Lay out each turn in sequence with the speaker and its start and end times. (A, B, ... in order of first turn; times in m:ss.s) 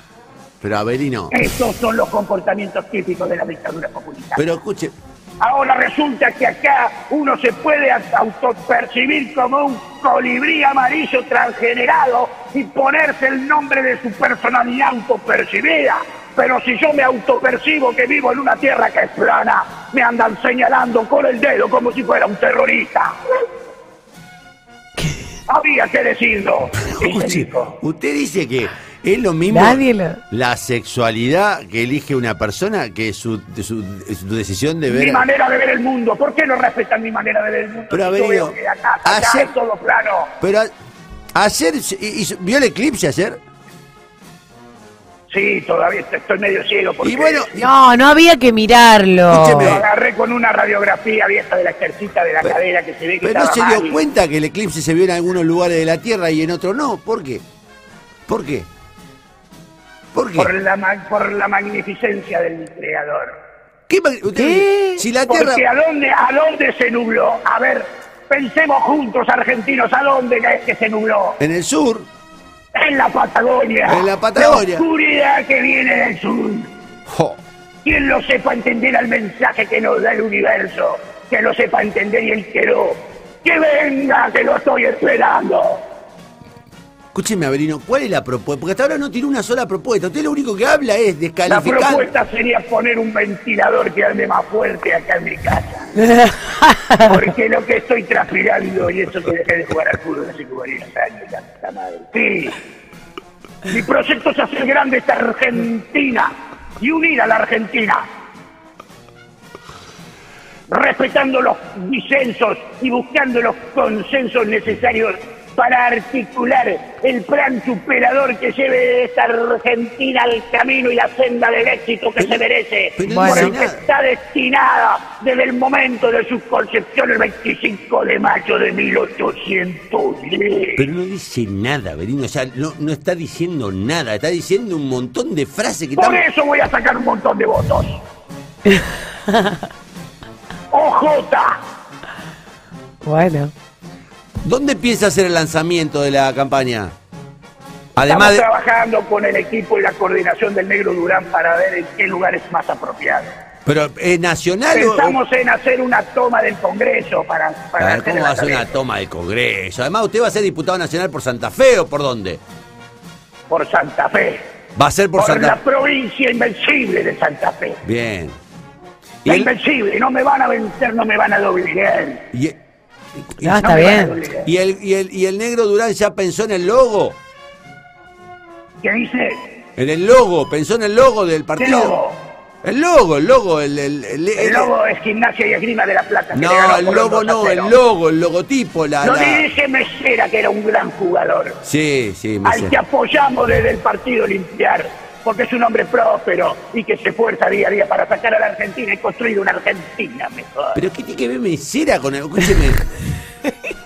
0:00.6-0:01.4 A
0:01.3-0:04.4 B
0:04.4-0:04.9 A
0:05.4-0:23.1 B
0:25.5-0:27.8 B
0:26.8-0:35.3 A
0:29.5-0:30.2 C
0:34.9-0:40.3 B
0:37.9-0:39.5 A
0:40.4-0:40.7 A
0:41.4-0:43.4 A
0:45.3-0:47.5 B
0:47.0-0:47.7 A
0:47.6-0:49.8 C
0:49.3-0:49.8 A
0:49.6-0:54.0 B
0:53.2-0:57.4 A
0:58.3-0:58.7 A
1:00.1-1:00.5 A
1:00.4-1:03.4 B
1:03.9-1:05.6 A
1:04.3-1:05.0 C
1:05.3-1:11.4 B
1:11.4-1:12.1 A
1:12.7-1:16.7 B
1:13.9-1:14.8 A
1:17.1-1:17.4 A
1:17.8-1:25.8 B
1:27.1-1:32.1 A
1:31.5-1:35.9 B
1:36.0-1:37.1 C
1:37.0-1:42.6 B
1:43.7-1:48.1 B
1:50.7-2:10.9 B
2:03.0-2:03.8 A
2:03.0-2:03.6 C
2:10.8-2:16.2 A
2:16.0-2:18.0 B
2:18.7-2:19.6 C
2:20.7-2:21.6 B
2:23.0-2:23.5 C
2:24.4-2:26.9 A
2:28.0-2:28.5 A
2:28.0-2:33.3 B
2:33.6-2:35.2 A
2:34.7-2:38.8 B
2:37.8-2:42.4 A
2:43.5-2:44.4 B
2:44.8-2:45.6 A
2:45.2-2:47.8 B
2:47.8-2:48.4 A
2:49.2-2:49.5 A
2:49.2-2:52.2 B
2:53.2-2:53.6 A
2:53.4-2:54.1 C
2:53.6-2:54.5 B
2:54.4-2:57.2 A
2:58.8-2:59.4 B
2:59.8-3:02.0 A
3:01.6-3:02.2 B
3:02.6-3:04.7 A
3:04.4-3:07.8 B
3:06.3-3:09.5 A
3:09.0-3:11.6 B
3:11.6-3:12.8 A
3:12.4-3:20.8 B
3:20.8-3:22.8 A